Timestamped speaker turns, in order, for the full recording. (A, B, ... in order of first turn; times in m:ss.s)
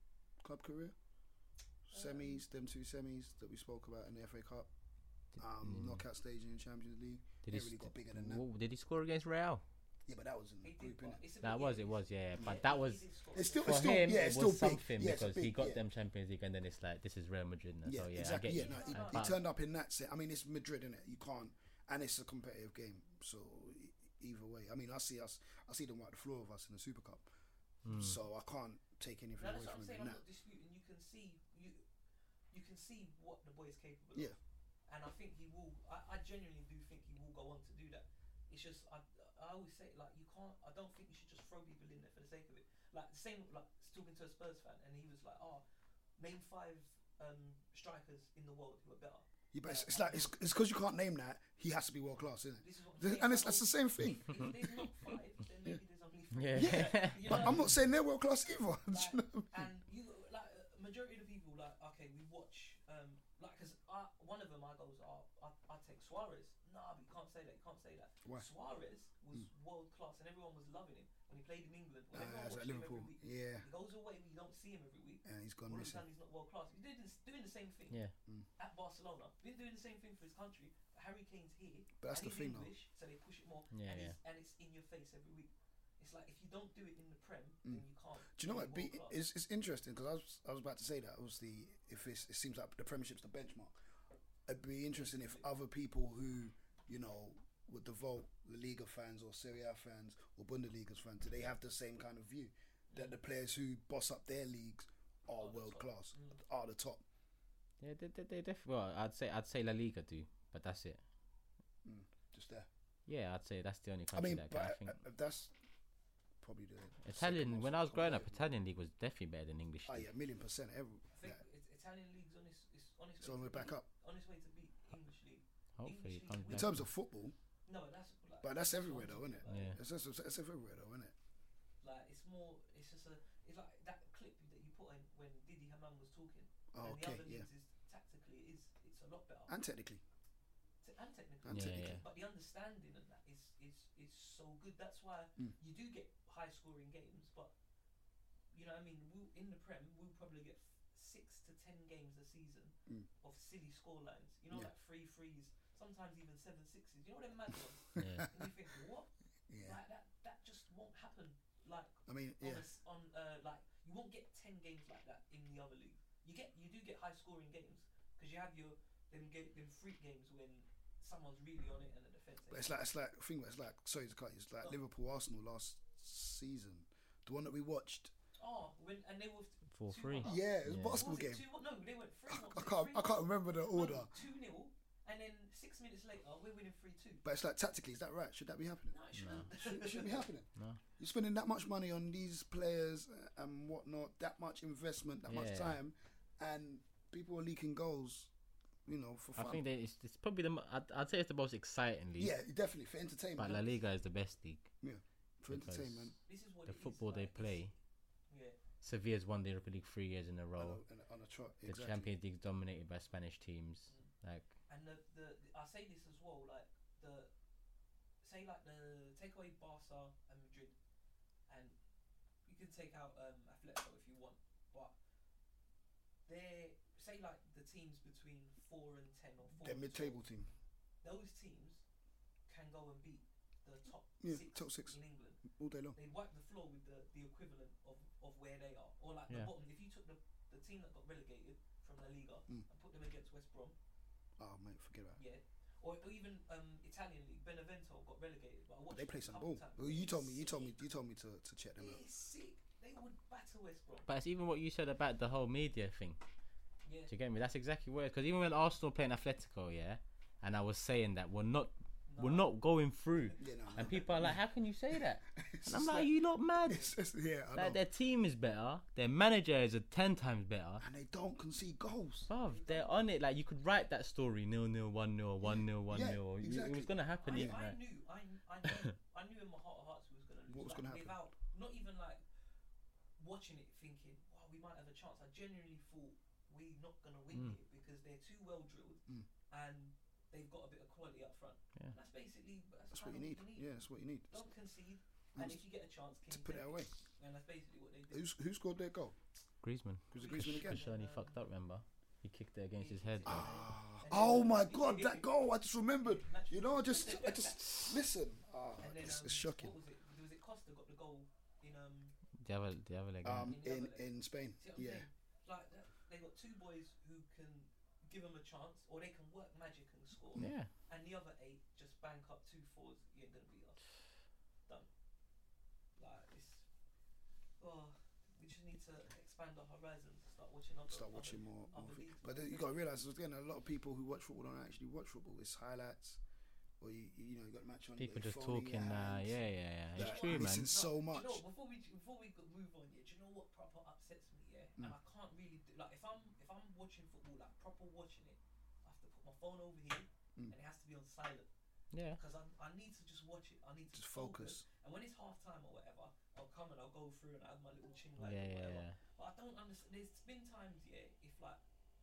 0:00.4-0:00.9 A
0:01.9-0:04.7 A
0:01.9-0:02.4 B
0:05.4-0:08.4 A
0:05.6-0:06.0 C
0:07.4-0:09.6 C
0:10.0-0:11.2 A
0:10.6-0:14.3 B
0:11.4-0:13.0 C
0:13.3-0:15.8 A
0:13.6-0:19.4 C
0:17.8-0:27.2 A
0:18.4-0:19.4 B
0:27.8-0:28.2 C
0:27.8-0:30.2 A
0:29.4-0:31.8 B
0:32.5-0:34.4 B
0:34.9-0:45.6 B
0:46.2-0:50.4 B
0:49.5-0:54.9 A
0:52.6-0:57.7 B
0:56.3-0:57.6 C
0:56.5-0:59.7 A
0:58.9-1:18.0 B
1:12.1-1:13.7 A
1:15.2-1:16.0 A
1:18.6-1:29.2 B
1:22.0-1:22.7 A
1:23.7-1:24.2 C
1:27.6-1:33.7 A
1:34.5-1:47.0 A
1:34.9-1:35.4 B
1:42.9-1:43.2 B
1:45.4-1:46.4 B
1:47.8-1:51.0 C
1:51.8-1:52.7 A
1:53.1-1:55.0 C
1:54.1-1:55.5 A
1:56.4-1:58.5 A
1:57.0-2:00.1 C
1:59.8-2:01.4 A
2:01.1-2:06.7 B
2:03.2-2:03.8 A
2:05.8-2:06.8 C
2:06.5-2:07.3 A
2:07.6-2:09.8 B
2:08.4-2:11.1 A
2:09.5-2:09.8 C
2:11.8-2:19.5 B
2:16.7-2:17.5 A
2:19.5-2:20.0 A
2:20.8-2:27.5 B
2:21.4-2:22.0 A
2:21.5-2:22.0 C
2:28.5-2:52.7 B
2:38.0-2:38.3 A
2:38.0-2:38.3 C
2:39.5-2:39.8 A
2:42.0-2:42.6 A
2:52.5-2:58.1 A
2:58.4-3:07.2 B
2:59.7-3:01.0 C
3:00.2-3:01.4 A
3:02.3-3:04.1 A
3:07.2-3:18.3 A
3:08.9-3:10.3 B
3:09.2-3:09.5 C
3:15.3-3:15.8 C
3:18.8-3:19.6 A
3:19.4-3:22.3 C
3:22.2-3:23.7 A
3:23.4-3:24.7 C
3:24.8-3:26.1 A
3:25.5-3:27.7 C
3:26.2-3:27.7 B
3:28.3-3:28.6 B
3:28.8-3:30.8 C
3:30.6-3:32.1 A
3:31.6-3:34.5 C
3:34.7-3:37.3 B
3:38.2-3:40.7 B
3:41.5-3:41.8 B
3:42.4-3:44.9 B
3:46.2-3:50.2 B
3:49.6-3:50.5 A
3:51.0-3:51.8 B
3:52.5-3:55.4 B
3:54.2-3:56.0 A
3:55.9-4:03.8 B
4:04.4-4:05.2 A
4:05.2-4:10.8 B
4:08.9-4:12.0 A
4:11.8-4:14.1 B
4:14.1-4:16.2 C
4:16.8-4:17.1 B
4:17.1-4:26.9 C
4:22.1-4:22.5 B
4:23.1-4:24.1 B
4:23.4-4:24.4 A
4:24.9-4:27.8 A
4:27.5-4:30.8 C
4:30.8-4:32.3 A
4:32.3-4:37.8 C
4:32.5-4:33.1 B
4:35.4-4:37.6 A
4:37.2-4:42.2 B
4:40.5-4:41.2 A
4:43.2-4:53.7 B
4:52.9-4:54.4 A
4:54.3-4:58.3 B
4:55.3-4:55.6 A
4:56.3-4:56.9 A
4:58.1-4:59.2 A
4:59.6-5:03.5 C
5:00.1-5:00.8 A
5:00.1-5:01.4 B
5:02.8-5:05.3 B
5:03.2-5:09.7 A
5:06.0-5:07.9 B
5:08.8-5:12.2 B
5:12.4-5:13.5 C
5:13.2-5:15.1 A
5:13.4-5:24.0 B
5:20.4-5:20.7 C
5:26.0-5:26.7 B
5:27.6-5:32.7 B
5:30.9-5:36.2 A
5:36.8-5:39.4 A
5:38.0-5:40.7 C
5:39.9-5:41.4 A
5:39.9-5:51.5 B
5:51.9-5:52.2 C
5:52.1-6:01.6 B
5:53.9-5:54.6 A
5:58.2-5:59.0 C